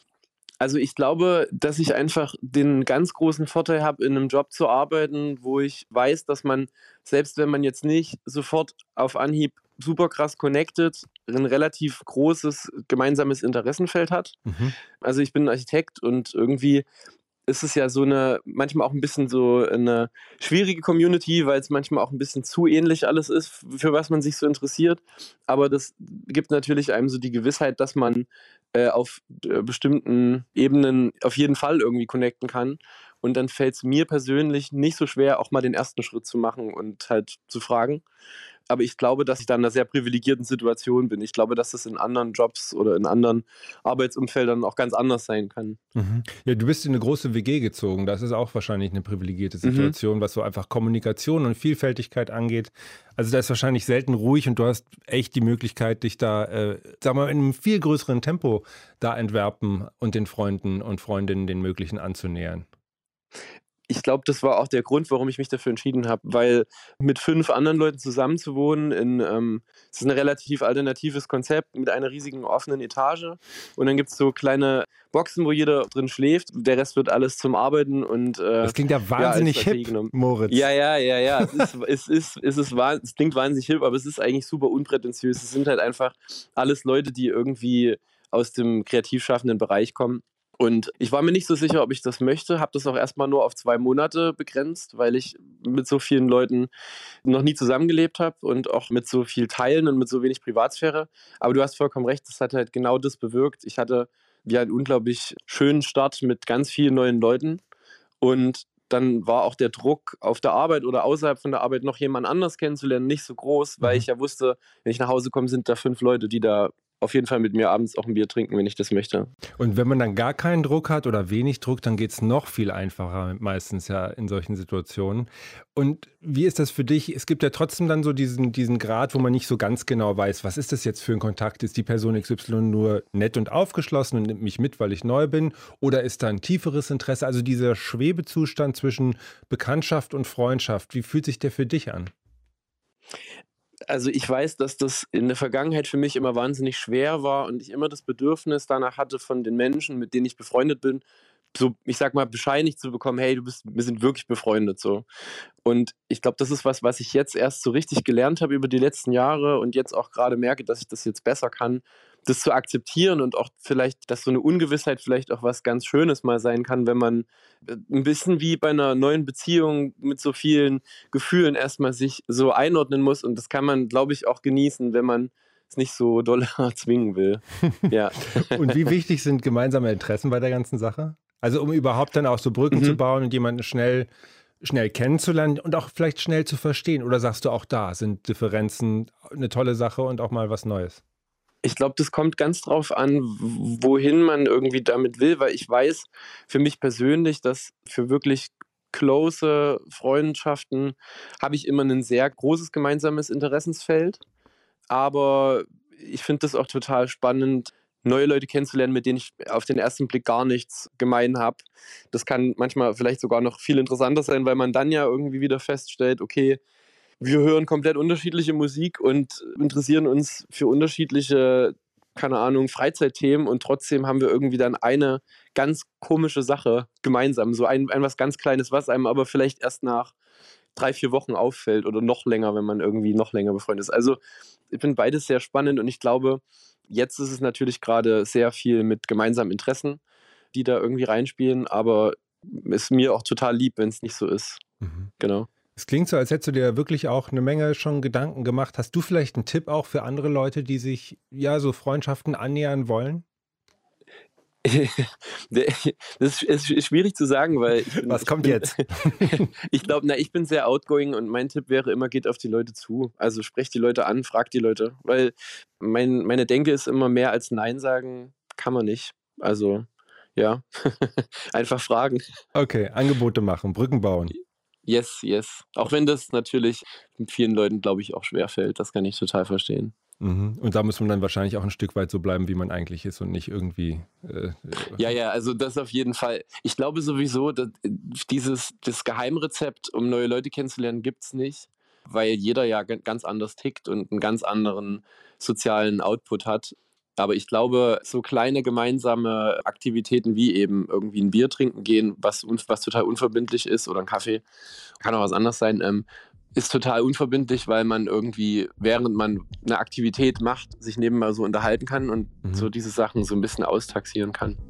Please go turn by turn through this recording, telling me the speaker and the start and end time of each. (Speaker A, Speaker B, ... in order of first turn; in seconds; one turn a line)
Speaker A: 0.6-14.4
Speaker B: 14.5-14.8
Speaker A: 15.0-16.8
Speaker A: 17.5-38.0
Speaker A: 38.7-45.8
Speaker B: 46.0-62.7
Speaker A: 49.6-50.0
Speaker A: 63.9-96.7
Speaker B: 78.6-80.7
Speaker B: 81.4-81.7
Speaker A: 97.2-107.6
Speaker A: 108.2-119.3
Speaker B: 119.6-142.1
Speaker A: 143.9-151.0
Speaker A: 151.5-155.1
Speaker A: 155.6-178.8
Speaker B: 178.5-184.1
Speaker A: 182.7-183.0
Speaker B: 184.6-191.0
Speaker A: 191.6-204.2
Speaker A: 204.9-216.6
Speaker A: 217.2-230.1
Speaker A: 230.8-234.2
Speaker A: 234.7-240.0
Speaker A: 240.5-244.6
Speaker B: 244.8-245.1
Speaker A: 245.2-245.5
Speaker B: 245.8-253.2
Speaker A: 254.6-272.2
Speaker B: 258.1-259.4
Speaker B: 272.6-274.3
Speaker A: 274.9-279.9
Speaker B: 280.2-285.0
Speaker A: 284.9-304.4
Speaker A: 305.0-314.6